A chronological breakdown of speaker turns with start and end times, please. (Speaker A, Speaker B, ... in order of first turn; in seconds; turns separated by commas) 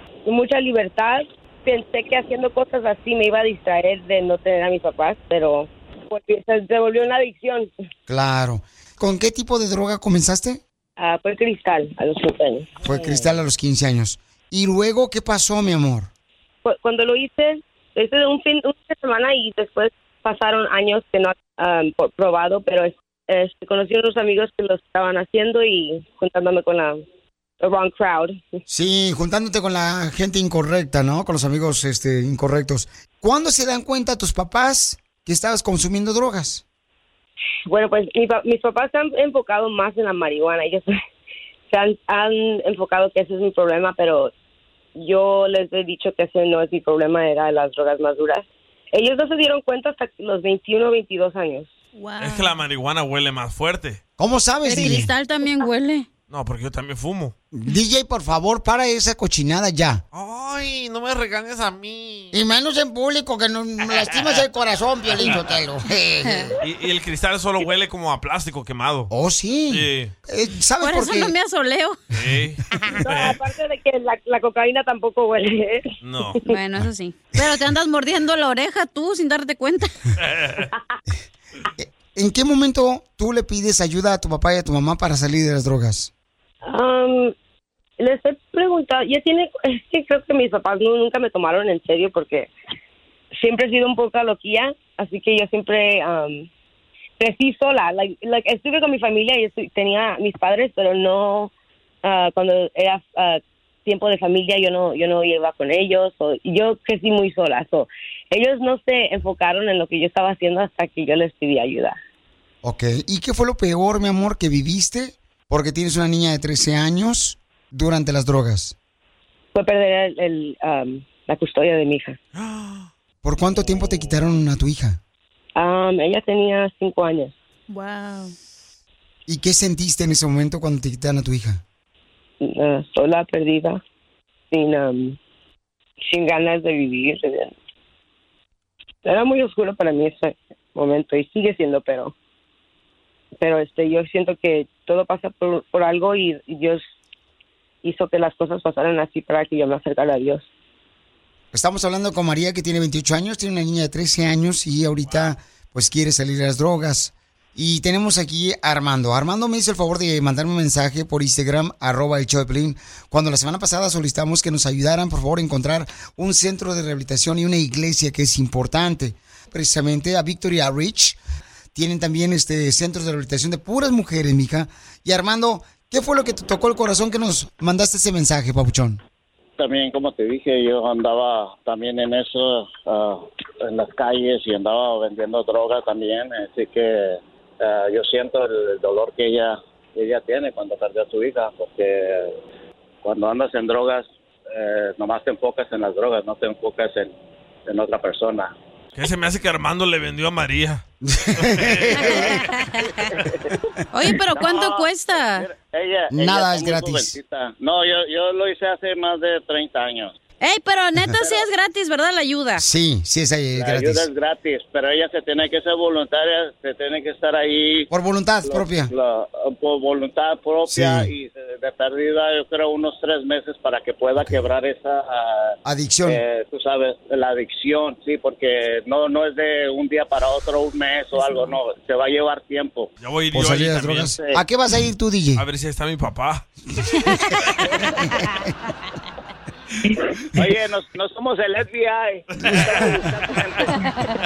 Speaker A: 0.3-7.7, Speaker B: 8.1-10.6, Speaker A: 11.0-13.2, Speaker B: 12.8-16.1, Speaker A: 16.6-27.0, Speaker A: 27.6-28.6, Speaker B: 28.7-36.6, Speaker A: 37.7-41.0, Speaker A: 41.7-44.3, Speaker A: 45.0-51.7, Speaker C: 52.0-52.5, Speaker D: 52.2-54.0, Speaker B: 54.2-55.1, Speaker C: 54.6-56.1, Speaker D: 56.3-57.3, Speaker B: 57.5-60.0, Speaker D: 60.1-62.3, Speaker B: 62.3-66.5, Speaker C: 66.2-66.5, Speaker D: 66.6-69.1, Speaker B: 69.1-71.3, Speaker D: 69.7-70.1, Speaker C: 70.8-72.0, Speaker D: 72.1-73.4, Speaker A: 73.0-76.6, Speaker D: 76.0-76.4, Speaker C: 76.4-80.0, Speaker D: 80.2-80.7, Speaker B: 81.8-86.1, Speaker A: 86.6-87.3, Speaker A: 88.0-92.5, Speaker A: 93.4-96.5, Speaker A: 97.2-101.5, Speaker A: 102.0-112.0, Speaker B: 112.6-118.8, Speaker A: 119.5-122.2, Speaker D: 122.3-122.9, Speaker B: 123.2-125.0, Speaker A: 125.6-127.3, Speaker C: 127.7-128.3, Speaker B: 129.3-131.6, Speaker A: 132.4-133.8, Speaker A: 134.5-135.2, Speaker A: 136.1-137.6, Speaker A: 139.1-142.1, Speaker A: 143.4-146.9, Speaker A: 147.8-150.5, Speaker B: 151.5-171.2, Speaker B: 171.8-179.0, Speaker E: 179.6-192.4, Speaker E: 193.0-197.2, Speaker E: 197.7-198.5, Speaker D: 198.9-200.8, Speaker B: 201.1-202.4, Speaker D: 201.4-202.1, Speaker C: 202.0-203.1, Speaker C: 203.9-205.5, Speaker E: 204.3-210.1, Speaker B: 206.1-207.2, Speaker C: 210.4-212.6, Speaker E: 211.2-211.5, Speaker B: 212.6-214.1, Speaker E: 213.6-217.9, Speaker B: 217.9-218.9, Speaker E: 218.4-232.9, Speaker B: 220.7-221.1, Speaker B: 225.7-226.2, Speaker D: 233.0-234.2, Speaker B: 233.3-235.4, Speaker D: 235.4-236.5, Speaker B: 238.0-238.5, Speaker E: 240.4-243.8, Speaker D: 242.4-242.8, Speaker B: 242.6-242.9